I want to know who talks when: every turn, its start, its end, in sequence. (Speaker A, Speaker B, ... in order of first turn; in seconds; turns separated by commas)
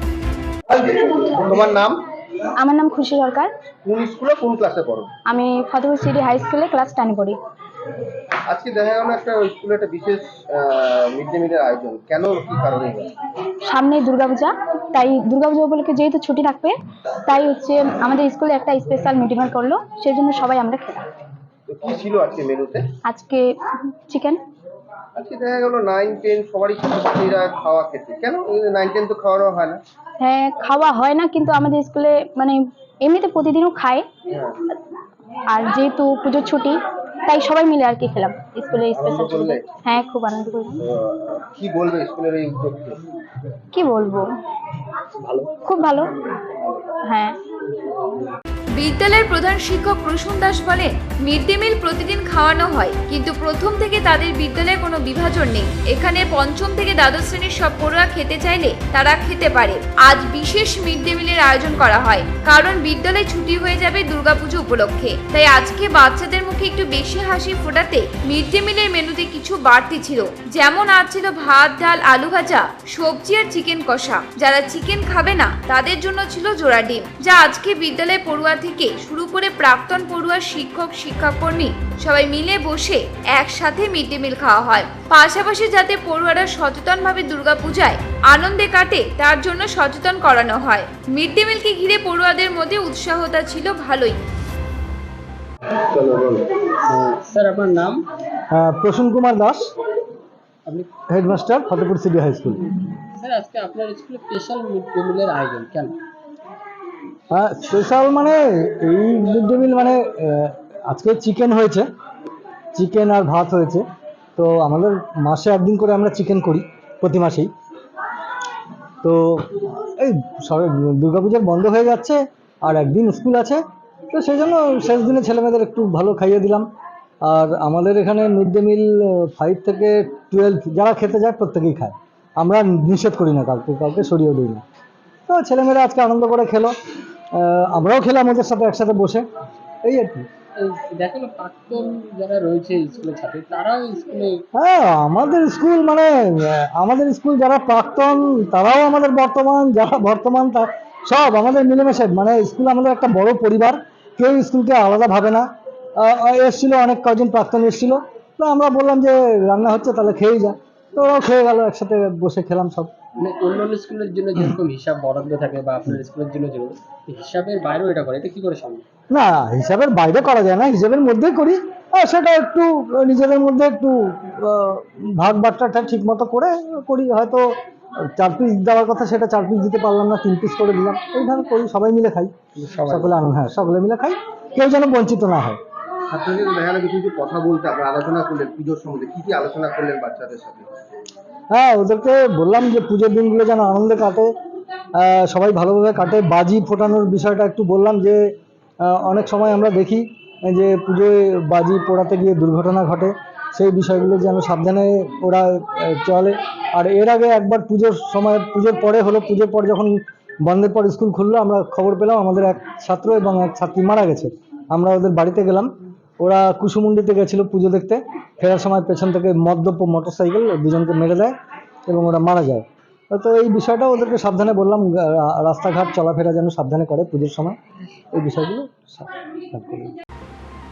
Speaker A: 0.7-2.0, Speaker B: 2.6-3.5, Speaker A: 3.8-5.1, Speaker B: 5.3-7.4, Speaker A: 8.5-13.1, Speaker B: 13.7-21.1, Speaker A: 21.7-22.9, Speaker B: 23.1-24.4, Speaker A: 25.2-29.8, Speaker B: 30.2-34.1, Speaker A: 34.3-34.6, Speaker B: 35.5-40.9, Speaker A: 38.9-39.8, Speaker A: 40.8-43.0, Speaker B: 43.7-44.3, Speaker B: 45.6-46.1, Speaker A: 46.2-46.9, Speaker B: 47.0-47.4, Speaker C: 48.7-94.2, Speaker A: 95.8-96.7, Speaker D: 96.9-98.0, Speaker E: 98.5-99.7, Speaker E: 101.1-102.7, Speaker D: 103.1-106.0, Speaker E: 107.3-111.9, Speaker E: 112.7-117.5, Speaker E: 119.0-126.7, Speaker E: 127.2-134.6, Speaker E: 135.3-136.7, Speaker E: 137.3-139.3, Speaker E: 139.8-140.3, Speaker D: 140.6-144.4, Speaker E: 144.5-162.9, Speaker D: 163.2-168.8, Speaker E: 169.1-182.3, Speaker D: 182.6-183.2, Speaker E: 182.9-185.6, Speaker A: 186.1-190.7, Speaker E: 191.5-194.3, Speaker E: 194.9-221.3, Speaker E: 221.9-227.6, Speaker E: 228.1-229.9